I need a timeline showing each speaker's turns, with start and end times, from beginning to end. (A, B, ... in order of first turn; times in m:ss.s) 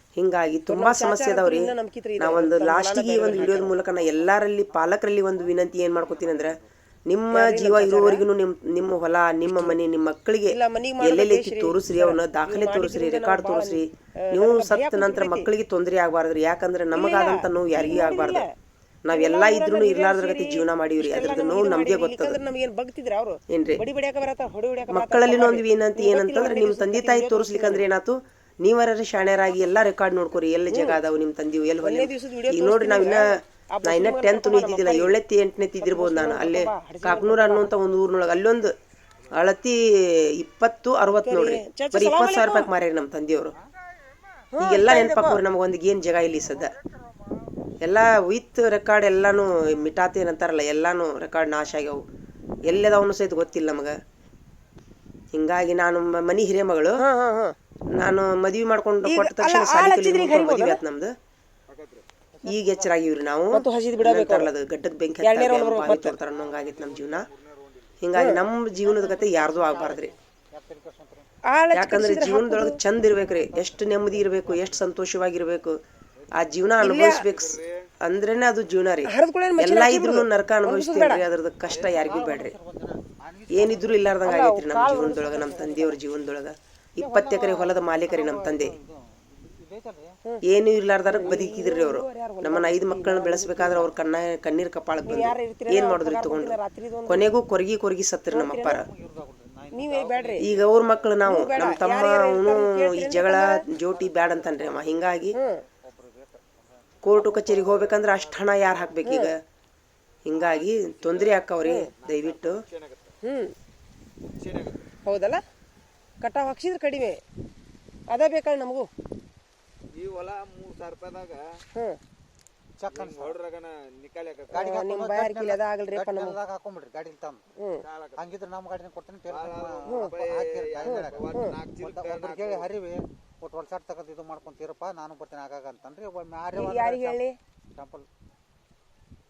0:00.2-0:18.4 A
0:00.7-0:03.7 B
0:03.7-0:04.4 C
0:07.3-0:08.3 B
0:10.5-0:15.5 B
0:16.9-0:18.5 B
0:19.0-0:22.4 A
0:19.1-0:27.9 B
0:23.5-0:23.8 A
0:24.9-0:38.8 A
0:30.7-0:31.0 B
0:31.8-0:35.2 B
0:35.8-0:37.8 B
0:39.3-0:43.6 A
0:41.2-0:42.7 B
0:44.5-0:45.4 B
0:44.6-0:46.7 A
0:47.8-0:52.1 A
0:52.6-0:54.0 A
0:55.3-0:57.0 A
0:57.0-0:57.6 B
0:57.9-1:01.1 A
0:59.0-1:00.8 B
1:02.4-1:03.0 C
1:02.4-1:07.3 A
1:03.5-1:04.5 B
1:05.2-1:06.2 B
1:06.6-1:07.5 D
1:08.0-1:10.1 A
1:08.2-1:08.4 B
1:08.8-1:11.3 C
1:11.4-1:12.8 B
1:11.7-1:15.8 A
1:13.1-1:14.9 C
1:16.3-1:22.6 A
1:16.8-1:17.3 B
1:17.3-1:17.6 D
1:19.1-1:21.2 B
1:21.7-1:24.2 C
1:23.5-1:28.8 A
1:24.2-1:26.0 B
1:27.0-1:30.2 C
1:30.4-1:36.6 A
1:31.1-1:33.9 B
1:35.1-1:37.3 B
1:37.1-1:38.9 A
1:38.3-1:38.8 B
1:38.6-1:40.8 C
1:39.7-1:40.5 B
1:40.4-1:45.4 A
1:41.2-1:43.6 B
1:43.8-1:45.0 C
1:45.3-1:45.6 B
1:45.7-1:47.2 C
1:47.0-1:49.4 A
1:47.6-1:48.7 D
1:49.0-1:49.4 B
1:50.2-1:52.6 A
1:51.1-1:51.4 D
1:51.6-1:51.9 B
1:52.1-1:53.1 D
1:53.2-1:53.6 B
1:54.4-1:54.8 D
1:55.0-1:55.4 B
1:56.2-1:57.2 B
1:58.1-1:58.9 B
1:59.9-2:01.6 D
2:01.7-2:02.0 B
2:02.8-2:03.4 C
2:03.0-2:04.5 D
2:04.5-2:07.4 C
2:04.6-2:06.4 B
2:07.6-2:07.9 B
2:07.9-2:08.2 D
2:08.1-2:17.2 C
2:09.3-2:12.6 D
2:09.9-2:10.2 B
2:10.8-2:11.6 B
2:16.5-2:17.4 B
2:17.7-2:18.1 C